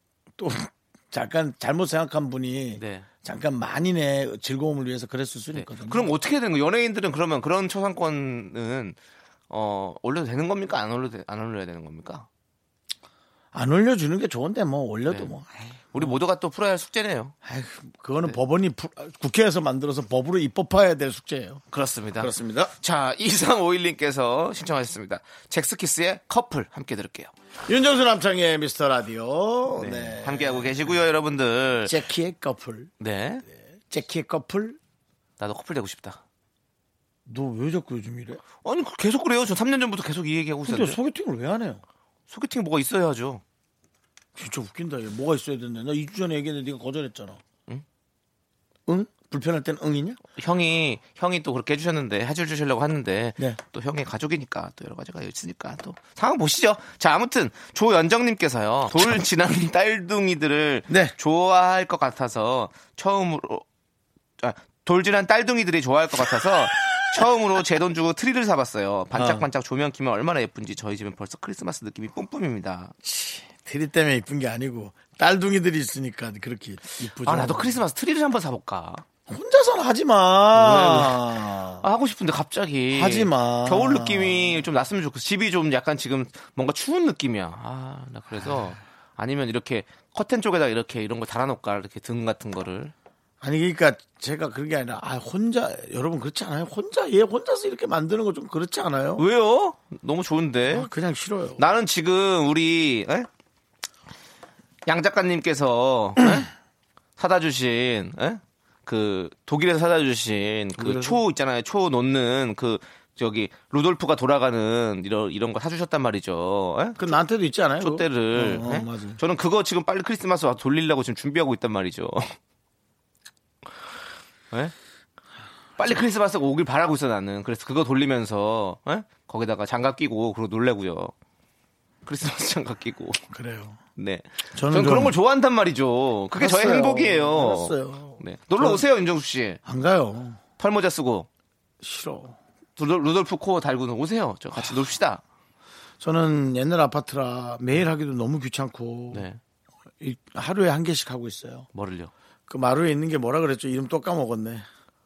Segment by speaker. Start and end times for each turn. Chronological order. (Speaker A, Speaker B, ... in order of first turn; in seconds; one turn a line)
Speaker A: 0.4-6.1
Speaker B: 2.8-3.1
Speaker B: 5.5-9.0
Speaker B: 9.5-12.3
Speaker A: 13.5-16.1
Speaker B: 15.1-15.3
Speaker B: 15.9-17.3
Speaker A: 17.4-21.6
Speaker B: 21.7-27.3
Speaker A: 22.2-22.7
Speaker A: 27.6-30.9
Speaker B: 29.7-31.9
Speaker A: 31.8-32.9
Speaker B: 33.0-33.4
Speaker A: 33.9-34.8
Speaker B: 35.4-36.2
Speaker A: 37.2-38.4
Speaker B: 38.6-41.0
Speaker A: 40.6-41.8
Speaker B: 42.3-43.4
Speaker A: 44.4-47.4
Speaker A: 48.9-50.2
Speaker B: 50.4-63.6
Speaker A: 60.9-61.1
Speaker B: 64.4-72.9
Speaker A: 69.1-69.4
Speaker A: 73.0-77.8
Speaker B: 77.2-79.0
Speaker A: 79.3-81.8
Speaker B: 80.5-81.2
Speaker B: 81.8-92.9
Speaker A: 82.9-84.6
Speaker A: 93.4-99.2
Speaker B: 99.2-100.9
Speaker A: 100.7-101.6
Speaker B: 101.6-103.3
Speaker B: 104.9-106.5
Speaker B: 107.2-117.0
Speaker A: 110.8-111.2
Speaker A: 117.0-119.2
Speaker B: 117.8-122.3
Speaker B: 125.8-131.1
Speaker B: 132.0-133.2
Speaker A: 133.3-133.8
Speaker B: 134.0-139.6
Speaker A: 134.5-135.2
Speaker A: 136.3-138.8
Speaker A: 139.6-140.4
Speaker B: 140.6-141.3
Speaker A: 141.8-142.4
Speaker B: 142.8-145.2
Speaker A: 146.0-149.3
Speaker B: 149.1-149.4
Speaker A: 150.0-151.7
Speaker B: 151.7-152.1
Speaker A: 152.5-154.7